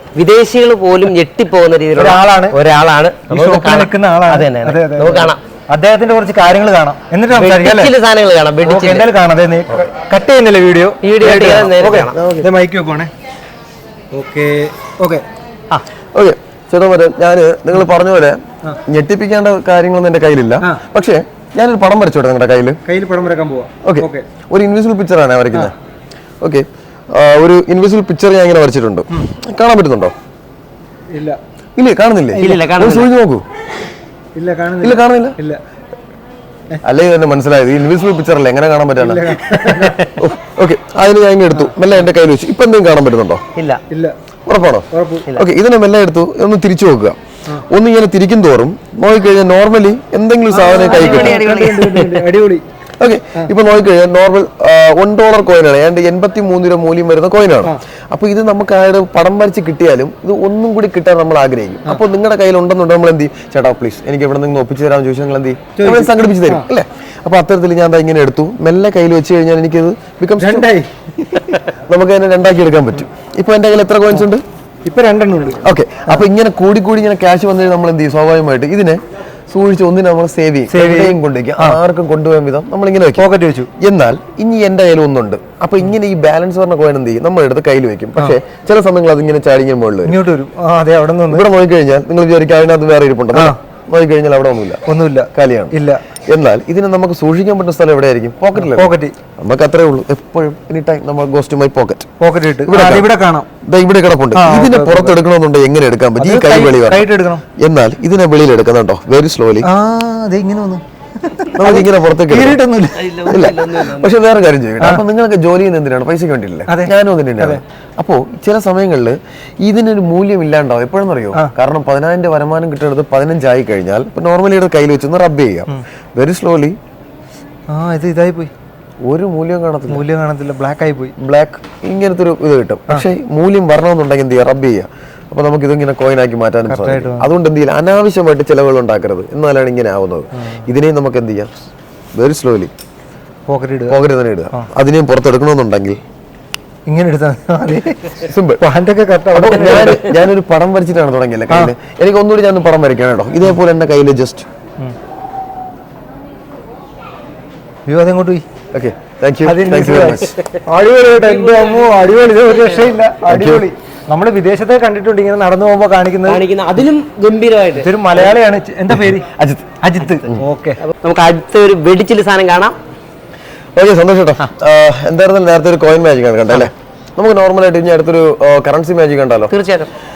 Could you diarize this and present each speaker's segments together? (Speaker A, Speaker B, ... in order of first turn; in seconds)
Speaker A: 0.1-5.4, 7.3-9.1, 11.0-12.2, 32.4-33.1, 39.5-40.2, 43.5-43.8, 50.6-52.3, 112.9-114.2, 161.2-162.1, 166.2-168.3, 170.8-172.8, 179.5-179.9
Speaker B: 1.9-2.6, 3.3-7.9, 8.6-13.1, 14.1-15.2, 22.8-24.2, 31.1-31.4, 34.4-35.6, 39.0-40.0, 43.9-44.1, 44.9-45.3, 50.5-52.6, 65.8-66.7, 70.4-71.6, 74.8-76.2, 80.7-81.8, 83.2-83.7, 90.0-91.5, 94.8-96.0, 98.5-99.1, 102.2-103.5, 104.3-105.2, 106.2-107.4, 109.6-113.6, 114.8-115.0, 116.7-117.6, 127.7-128.5, 129.9-131.1, 136.7-137.3, 143.5-144.0, 146.9-150.2, 151.5-151.7, 157.8-158.4, 159.4-166.4, 167.8-169.3, 169.8-170.8
Speaker C: 12.1-12.5, 16.1-22.8, 23.8-25.7, 26.4-30.1, 31.8-33.4, 34.8-35.4, 36.8-39.4, 40.1-43.4, 44.5-51.4, 53.0-70.7, 71.6-74.4, 75.6-83.2, 83.8-90.2, 91.3-94.8, 95.3-102.1, 102.7-103.1, 103.6-109.7, 111.6-112.6, 113.2-126.8, 129.0-130.0, 131.2-141.5, 142.1-142.7, 143.9-146.0, 148.2-148.6, 149.3-154.5, 158.7-160.4, 163.3-163.6, 168.9-170.4, 173.7-179.5